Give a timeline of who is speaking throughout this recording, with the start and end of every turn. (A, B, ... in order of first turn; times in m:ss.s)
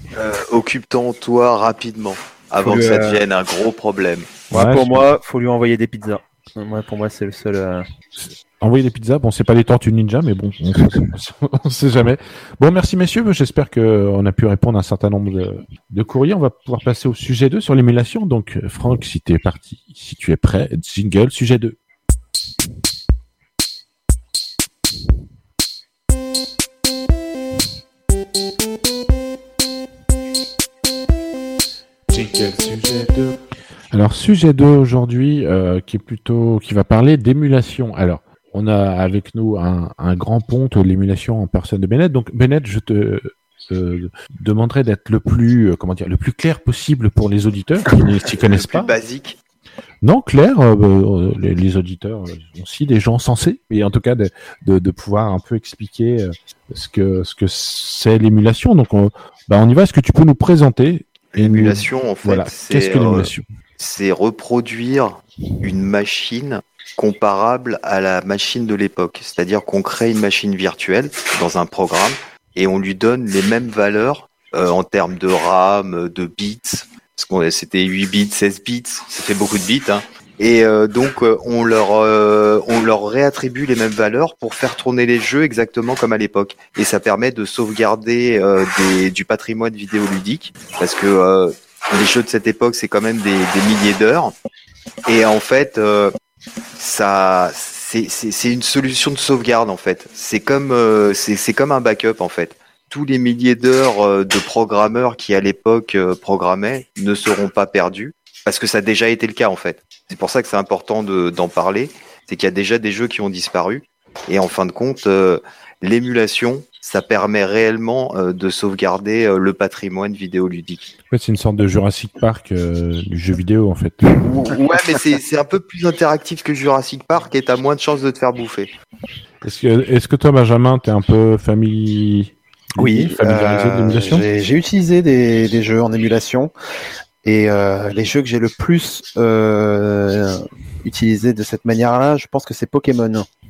0:00.2-0:04.4 A
0:02.6-0:03.2 B
0:04.5-0:05.1 C
0:04.5-0:07.9 B
0:08.2-0:21.8 C
0:32.1-0:33.4 C
0:33.9-0:48.9 C
0:48.4-0:49.4 A
0:50.0-1:03.5 C
1:01.3-1:34.3 A
1:35.1-1:36.1 A
1:36.8-2:00.9 A
2:01.1-2:04.1 C
2:04.2-2:08.7 A
2:09.4-2:14.2 C
2:12.8-2:16.5 B
2:17.2-2:23.3 B